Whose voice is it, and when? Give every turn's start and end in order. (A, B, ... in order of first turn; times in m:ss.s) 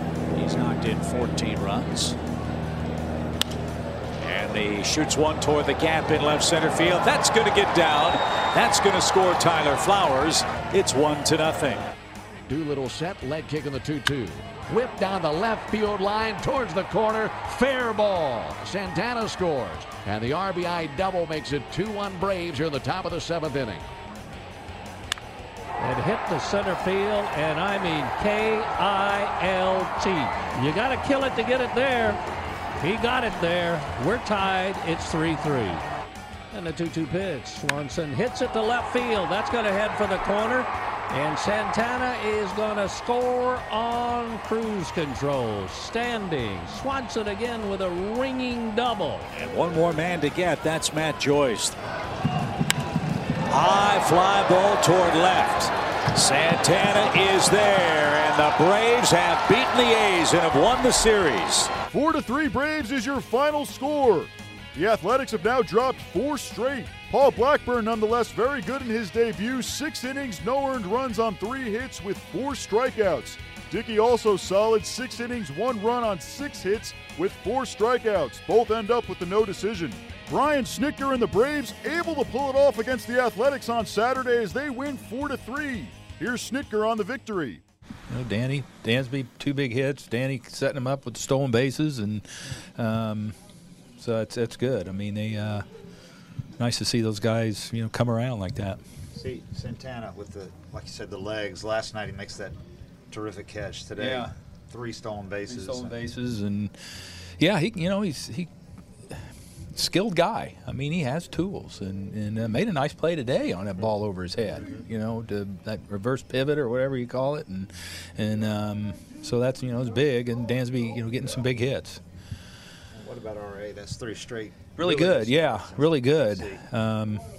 0:00.3-0:02.2 A
0:04.2-0:11.9 A
0:12.5-0:23.9 B
0:25.8-0:32.2 C
0:32.8-0:35.8 C
0:36.5-0:49.3 C
0:49.3-0:51.8 A
0:53.5-1:01.7 A
1:01.9-1:27.6 D
1:28.1-1:33.4 E
1:34.0-1:35.6 E
1:36.6-1:38.8 E
1:39.1-1:42.6 F
1:43.1-1:46.0 F
1:44.0-1:44.3 E
1:45.4-1:46.7 E
1:47.4-1:48.5 E
1:49.7-2:02.0 E
2:02.9-2:06.6 F
2:04.8-2:07.2 E